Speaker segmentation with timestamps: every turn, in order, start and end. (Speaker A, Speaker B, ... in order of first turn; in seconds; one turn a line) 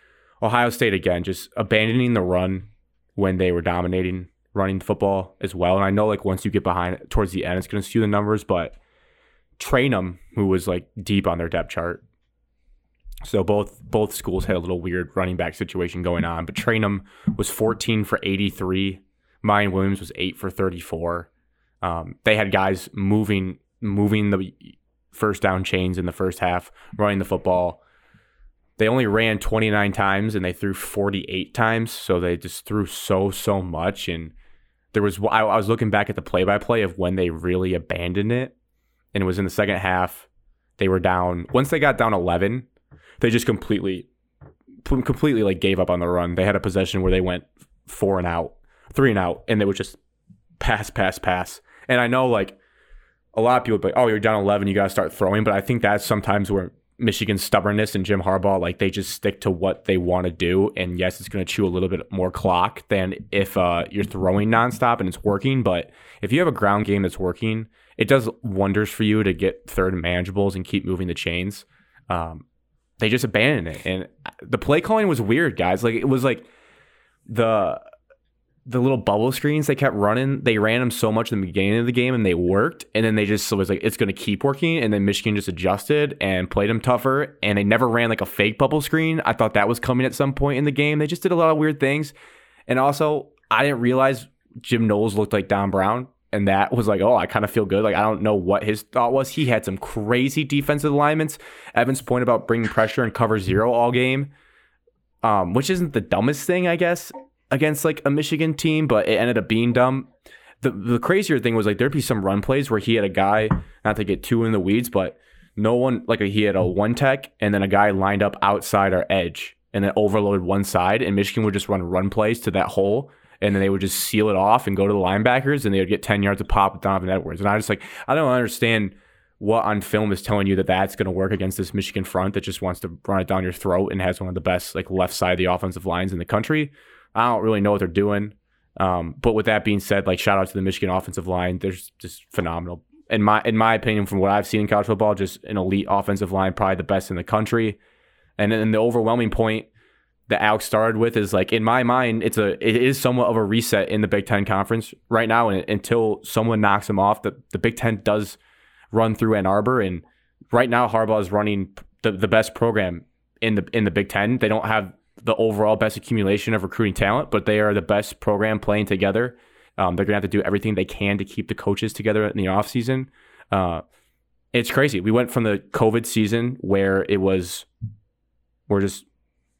Speaker A: 0.4-8.8
Speaker A: 9.6-12.0
Speaker A: 13.2-21.3
Speaker A: 21.8-27.8
Speaker A: 28.8-34.3
Speaker A: 34.9-38.5
Speaker A: 39.1-40.3
Speaker A: 40.8-42.7
Speaker A: 43.2-44.1
Speaker A: 44.8-50.0
Speaker A: 50.6-52.6
Speaker A: 53.3-72.5
Speaker A: 73.0-76.5
Speaker A: 77.3-77.8
Speaker A: 78.7-92.2
Speaker A: 92.7-104.3
Speaker A: 105.2-110.1
Speaker A: 110.6-147.8
Speaker A: 148.4-149.7
Speaker A: 150.3-158.4
Speaker A: 158.9-173.8
Speaker A: 174.5-177.7
Speaker A: 178.7-179.1